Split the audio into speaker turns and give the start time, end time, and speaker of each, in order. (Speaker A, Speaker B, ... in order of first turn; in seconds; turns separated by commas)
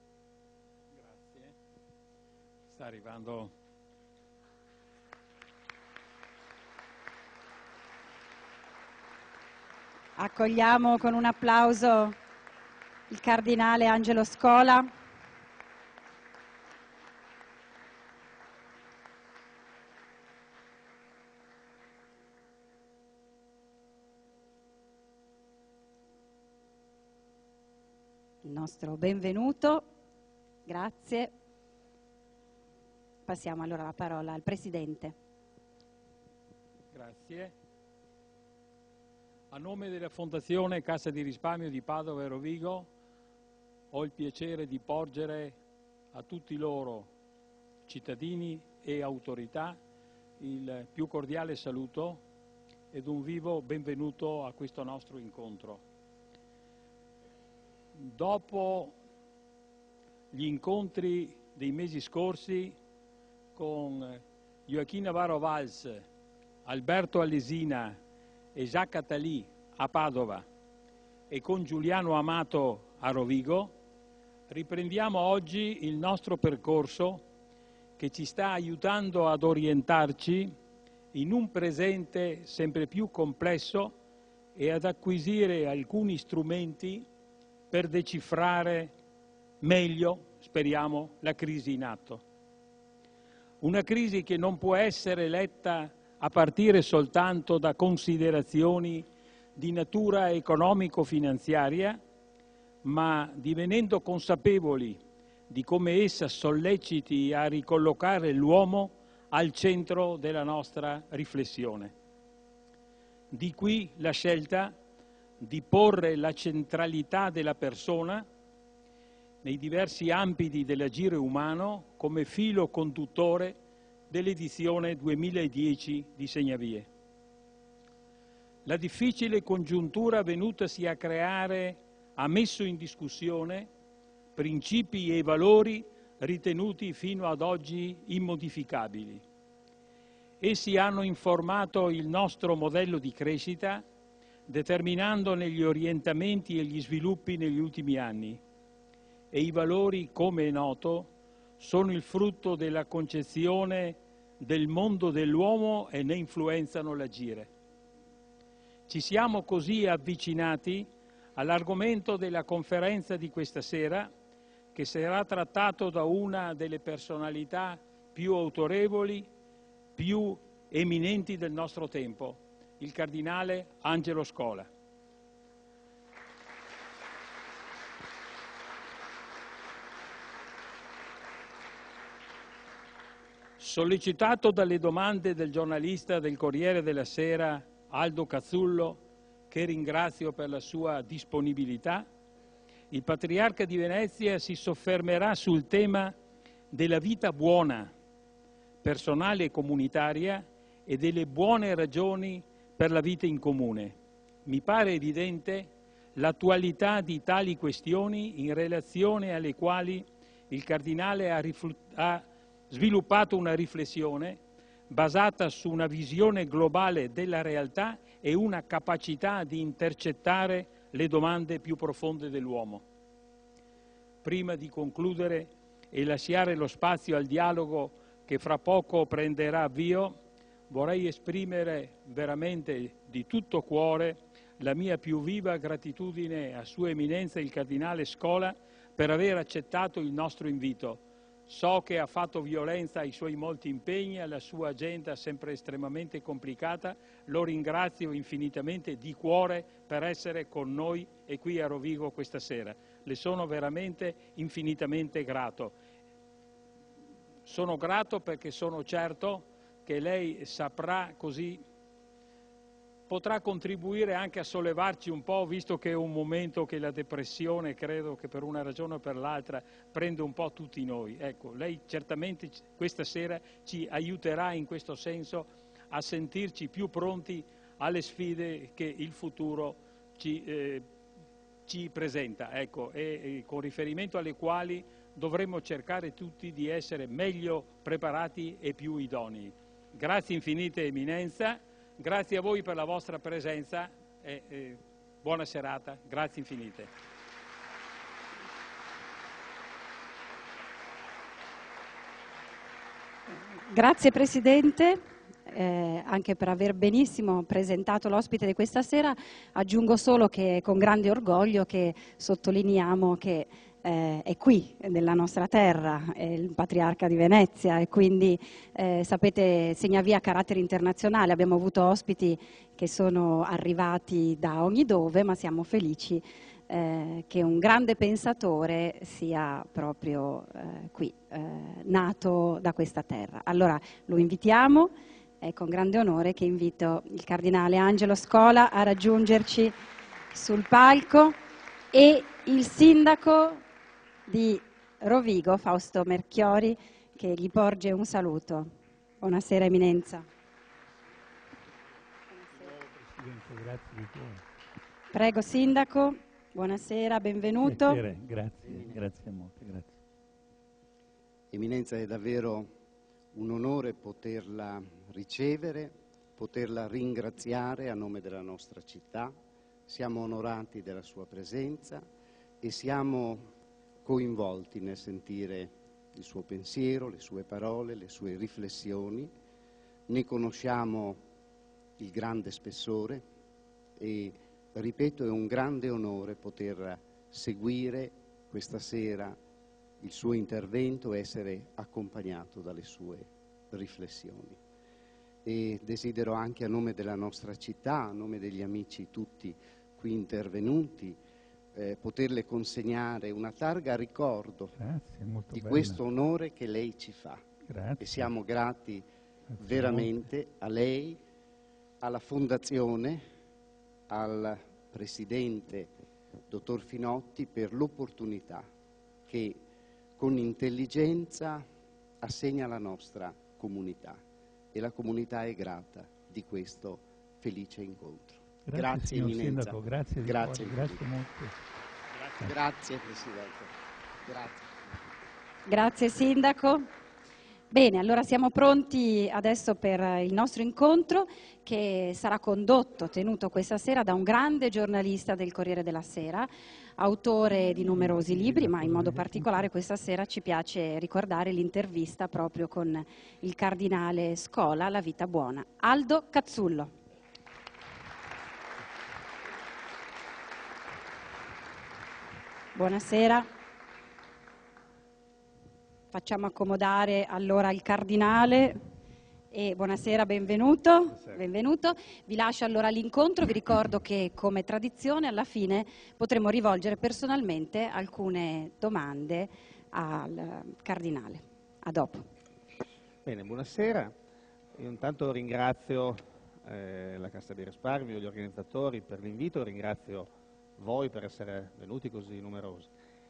Speaker A: 1.0-1.5, Speaker A: 2.7-3.5, Speaker B: 10.2-12.2, Speaker B: 13.1-14.9, Speaker B: 28.4-29.9, Speaker B: 30.7-31.3, Speaker B: 33.3-35.1, Speaker A: 36.9-37.5, Speaker A: 39.5-42.9, Speaker A: 43.9-45.6, Speaker A: 46.1-47.1, Speaker A: 47.9-49.8, Speaker A: 50.4-52.2, Speaker A: 52.9-55.8, Speaker A: 58.0-59.0, Speaker A: 60.3-62.8, Speaker A: 63.5-66.0, Speaker A: 66.7-68.0, Speaker A: 68.5-70.5, Speaker A: 71.3-73.7, Speaker A: 74.5-77.2, Speaker A: 78.0-80.5, Speaker A: 81.1-83.9, Speaker A: 84.5-87.1, Speaker A: 87.7-88.9, Speaker A: 89.6-92.2, Speaker A: 93.6-102.0, Speaker A: 102.8-111.9, Speaker A: 113.3-114.8, Speaker A: 115.4-118.2, Speaker A: 119.4-123.6, Speaker A: 124.1-126.9, Speaker A: 128.7-133.7, Speaker A: 134.4-139.2, Speaker A: 140.4-143.8, Speaker A: 144.5-148.4, Speaker A: 149.3-157.5, Speaker A: 158.9-164.1, Speaker A: 164.7-169.3, Speaker A: 170.0-174.7, Speaker A: 183.6-192.1, Speaker A: 192.9-196.1, Speaker A: 196.7-197.9, Speaker A: 198.8-222.8, Speaker A: 224.2-230.2, Speaker A: 230.7-255.8, Speaker A: 257.5-261.6, Speaker A: 263.1-280.9, Speaker A: 281.7-296.9, Speaker B: 303.7-339.8, Speaker B: 340.3-341.4, Speaker B: 341.9-343.6, Speaker B: 344.3-350.3, Speaker C: 352.6-354.4, Speaker B: 355.1-358.0, Speaker C: 357.6-360.0, Speaker D: 361.5-362.7, Speaker D: 363.3-369.4, Speaker D: 369.9-372.1, Speaker D: 372.6-373.4, Speaker D: 374.0-379.3, Speaker D: 380.1-381.2, Speaker D: 382.0-383.2, Speaker D: 384.0-389.4, Speaker D: 390.0-394.6, Speaker D: 395.4-401.2, Speaker D: 401.7-404.8, Speaker C: 404.8-406.0, Speaker D: 405.5-407.4, Speaker C: 407.7-408.3, Speaker D: 408.0-409.0, Speaker C: 409.5-410.2, Speaker D: 409.6-411.2, Speaker D: 412.0-413.2, Speaker D: 414.1-415.9, Speaker D: 416.5-418.7, Speaker D: 419.3-419.6, Speaker D: 420.2-421.6, Speaker D: 422.2-424.2, Speaker D: 424.7-431.0, Speaker C: 428.7-431.5, Speaker D: 432.2-433.7, Speaker D: 434.2-434.8, Speaker B: 435.7-436.9, Speaker B: 437.7-456.9, Speaker C: 447.9-449.7, Speaker B: 462.8-463.5, Speaker B: 466.1-468.8, Speaker B: 469.5-482.3, Speaker E: 483.2-484.1, Speaker E: 484.8-492.9